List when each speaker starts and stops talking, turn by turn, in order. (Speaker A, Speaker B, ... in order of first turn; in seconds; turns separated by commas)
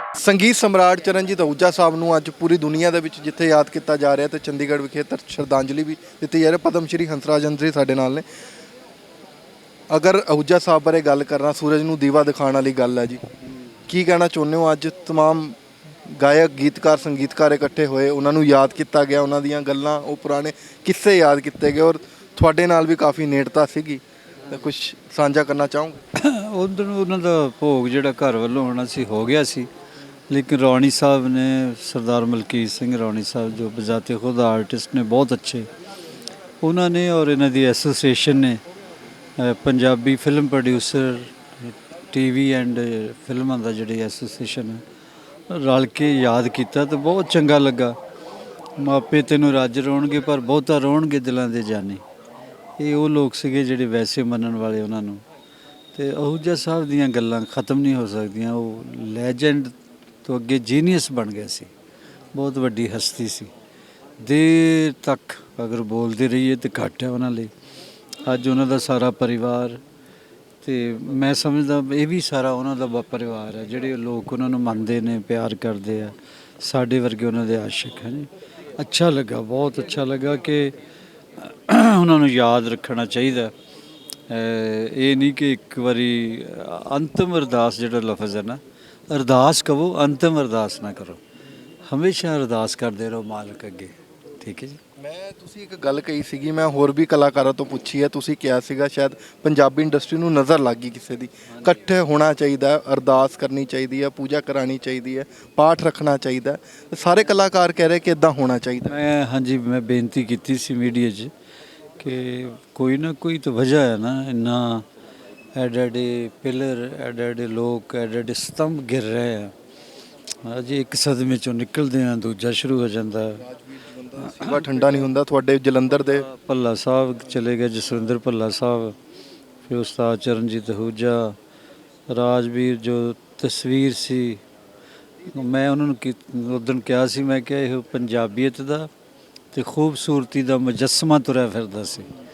Speaker A: 0.2-8.2, Speaker A: 9.9-13.2, Speaker A: 13.9-26.0, Speaker B: 26.1-29.7, Speaker B: 30.3-35.7, Speaker B: 36.6-38.6, Speaker B: 39.4-44.8, Speaker B: 45.5-48.0, Speaker B: 48.8-52.0, Speaker B: 52.8-55.2, Speaker B: 55.9-61.7, Speaker B: 62.4-63.5, Speaker B: 64.2-67.5, Speaker B: 68.2-69.8, Speaker B: 70.6-80.8, Speaker B: 81.4-83.5, Speaker B: 84.3-91.2, Speaker B: 91.9-94.8, Speaker A: 95.0-109.0, Speaker B: 108.9-111.3, Speaker B: 112.0-114.9, Speaker B: 115.5-119.5, Speaker B: 120.4-123.4, Speaker A: 123.4-126.3, Speaker B: 124.2-125.1, Speaker B: 126.1-129.0, Speaker B: 129.7-131.4, Speaker B: 132.1-134.4, Speaker B: 135.3-138.9, Speaker B: 139.5-142.1